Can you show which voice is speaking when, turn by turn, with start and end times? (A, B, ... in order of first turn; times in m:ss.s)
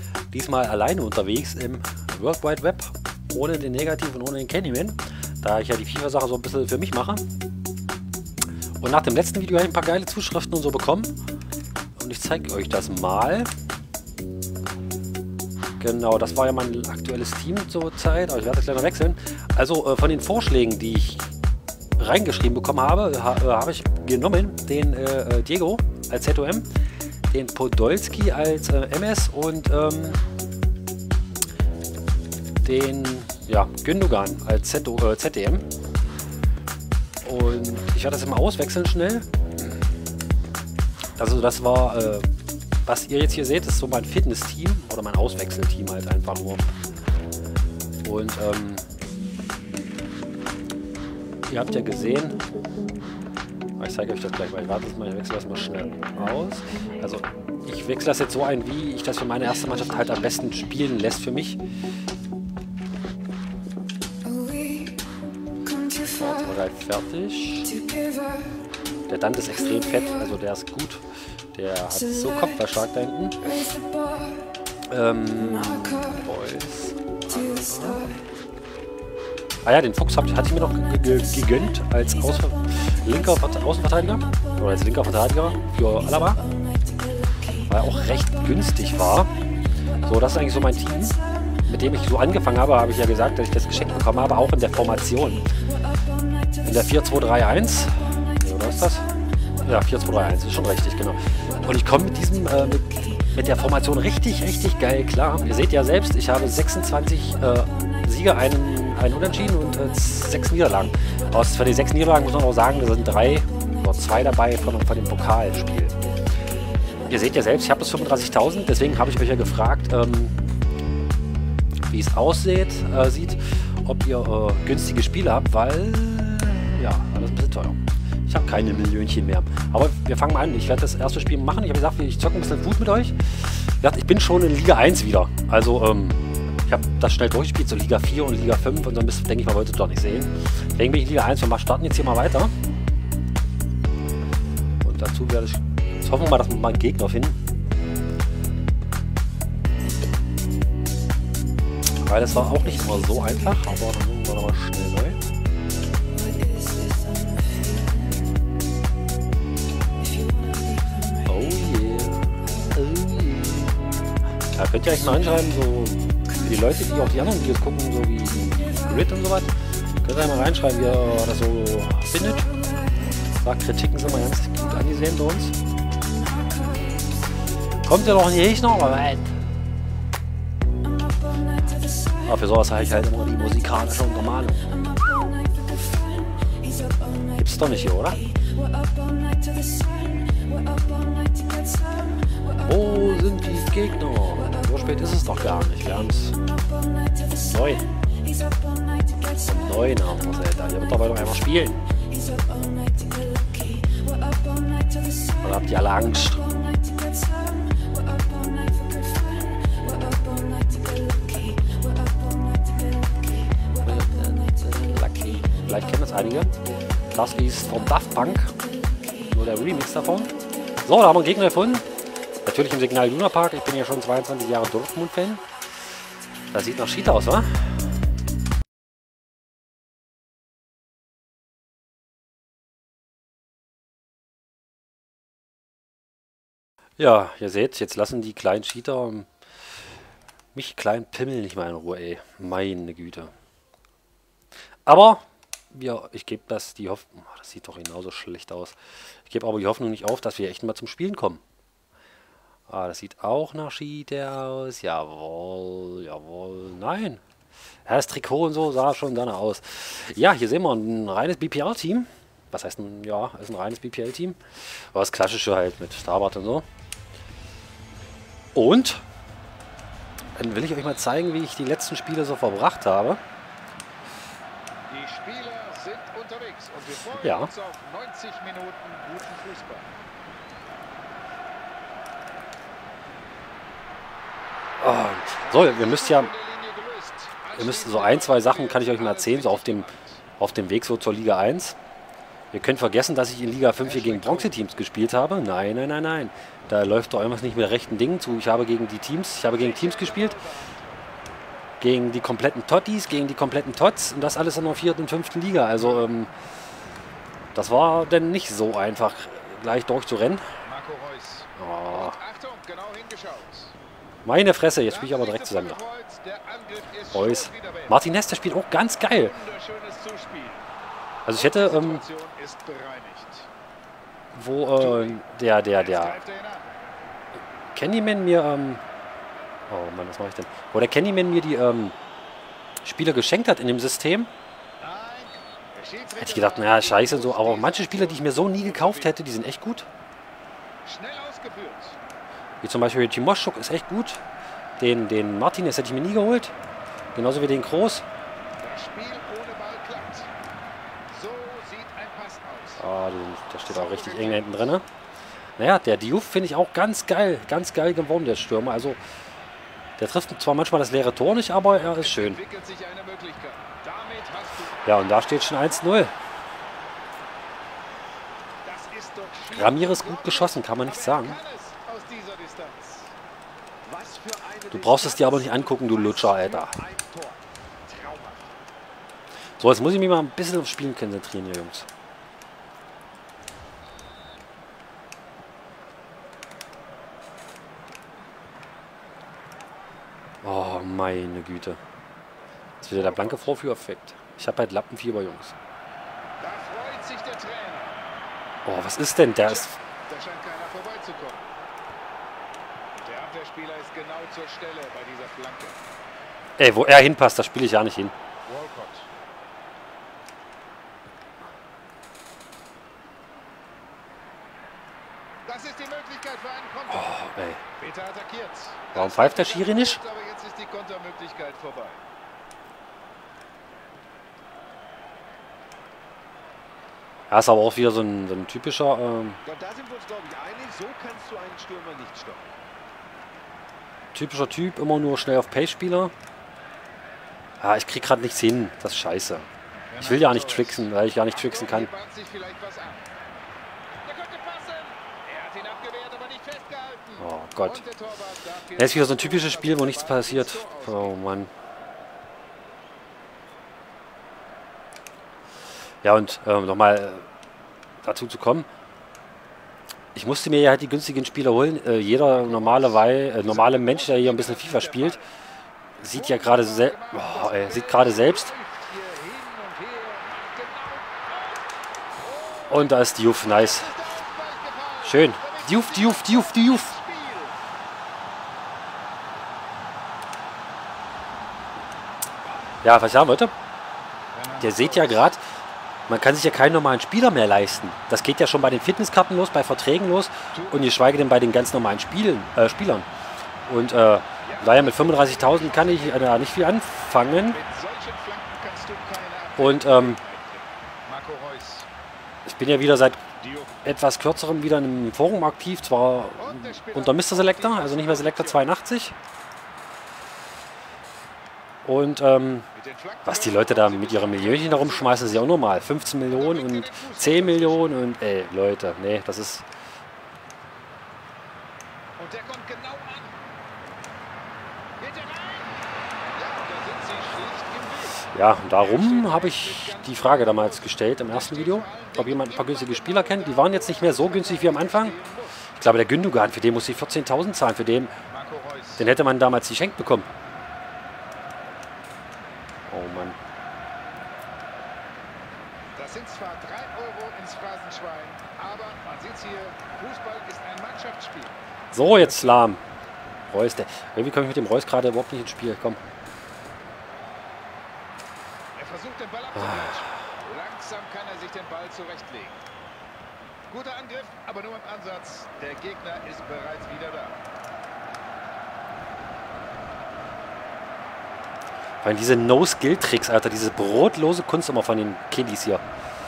0:00.3-0:07.2 A
0:08.8-0:11.2 A
0:12.0-0:13.5 A
0:15.8-0:21.3 A
0:22.0-0:26.7 A
0:27.3-0:30.2 A
0:32.6-0:35.6 A
0:37.2-0:39.9 A
0:41.2-0:42.3 A
0:42.8-0:46.7 A
0:48.0-0:48.8 A
0:51.5-0:52.4 A
0:53.8-1:01.6 A
1:06.0-1:07.8 A
1:09.1-1:11.0 A
1:11.5-1:13.4 A
1:14.9-1:18.2 A
1:19.6-1:26.4 A
1:27.7-1:29.3 A
1:30.0-1:35.5 A
1:36.6-1:39.1 A
1:39.6-1:56.0 A
1:57.1-2:00.4 A
2:01.9-2:22.5 A
2:24.8-2:27.4 A
2:32.0-2:35.2 A
2:41.3-2:43.9 A
2:44.5-2:52.5 A
2:53.4-2:55.5 A
2:57.8-2:59.3 A
3:02.2-3:04.6 A
3:07.4-3:08.2 A
3:12.6-3:16.4 A
3:17.4-3:17.9 A
3:19.4-3:21.8 A
3:25.4-3:26.4 A
3:33.8-3:36.5 A
3:37.1-3:38.6 A
3:39.3-3:40.3 A
3:40.8-3:41.8 A
3:42.5-3:45.4 A
3:46.5-3:47.7 A
3:57.0-3:59.3 A
4:00.6-4:03.3 A
4:04.9-4:08.8 A
4:09.3-4:11.4 A
4:12.7-4:17.2 A
4:17.9-4:24.4 A
4:24.9-4:26.7 A
4:28.6-4:29.0 A
4:30.4-4:33.2 A
4:34.9-4:39.9 B
4:37.2-4:37.5 A
4:44.8-4:46.3 A
4:45.4-4:50.2 B
4:47.6-4:51.8 A
4:52.5-5:00.4 A
4:53.8-4:54.6 B
4:59.5-5:00.9 B
5:01.8-5:06.3 A
5:05.8-5:06.1 B
5:07.6-5:10.5 A
5:10.6-5:13.8 B
5:11.6-5:12.2 A
5:14.2-5:15.8 A
5:14.9-5:18.0 B
5:17.1-5:19.3 A
5:19.1-5:20.7 B
5:21.3-5:22.0 A
5:21.3-5:23.5 B
5:24.3-5:26.2 A
5:24.8-5:25.2 B
5:25.7-5:26.7 B
5:27.7-5:28.8 A
5:29.7-5:32.0 A
5:32.8-5:34.3 A
5:34.8-5:39.2 B
5:36.2-5:39.9 A
5:40.8-5:42.0 B
5:42.6-5:44.2 A
5:44.8-5:46.5 A
5:47.2-5:48.0 A
5:48.6-5:50.3 B
5:51.1-5:52.8 B
5:52.8-5:54.9 A
5:53.6-5:54.8 B
5:55.6-5:59.0 A
6:00.0-6:02.4 A
6:01.8-6:06.1 B
6:04.8-6:06.1 A
6:08.6-6:13.1 B
6:09.5-6:11.4 A
6:13.8-6:18.6 C
6:14.7-6:16.8 A
6:19.6-6:21.9 A
6:30.4-6:31.8 A
6:32.8-6:35.5 A
6:33.0-6:33.6 B
6:36.4-6:38.0 B
6:38.6-6:39.8 A
6:39.4-6:41.4 B
6:43.0-6:45.8 B
6:46.6-6:48.1 A
6:48.5-6:49.1 B
6:55.5-7:02.0 B
6:56.9-6:57.6 A
6:59.0-7:00.0 A
7:07.3-7:09.4 A
7:09.4-7:12.6 C
7:14.1-7:16.1 A
7:17.6-7:19.5 A
7:19.9-7:23.1 B
7:20.0-7:21.9 A
7:24.0-7:31.2 B
7:27.2-7:27.8 A
7:28.8-7:31.5 A
7:36.0-7:37.3 A
7:38.0-7:38.7 A
7:40.2-7:45.2 A
7:42.1-7:45.2 B
7:46.0-7:48.5 A
7:46.0-7:51.7 B
7:52.2-7:57.6 B
7:52.7-7:53.9 A
7:55.0-7:56.9 A
8:02.8-8:03.5 A
8:04.3-8:05.4 B
8:04.6-8:05.4 A
8:06.1-8:13.1 A
8:10.5-8:11.0 B
8:13.7-8:17.6 A
8:14.4-8:16.4 B
8:17.5-8:21.9 B
8:19.6-8:20.2 A
8:22.5-8:23.2 A
8:23.4-8:23.8 B
8:23.8-8:29.2 A
8:26.4-8:28.7 B
8:31.8-8:32.7 A
8:32.8-8:35.6 B
8:33.3-8:39.6 A
8:36.3-8:37.9 B
8:42.2-8:43.4 B
8:45.0-8:45.8 B
8:46.3-8:55.6 B
8:48.3-8:55.2 A
8:55.8-8:58.2 A
8:58.3-8:59.1 B
8:59.0-9:00.3 A
9:02.9-9:03.4 A
9:06.0-9:11.6 B
9:11.9-9:12.8 A
9:12.1-9:12.7 B
9:13.5-9:16.0 A
9:18.8-9:22.6 B
9:19.6-9:19.9 A
9:23.7-9:27.4 B
9:32.0-9:35.8 A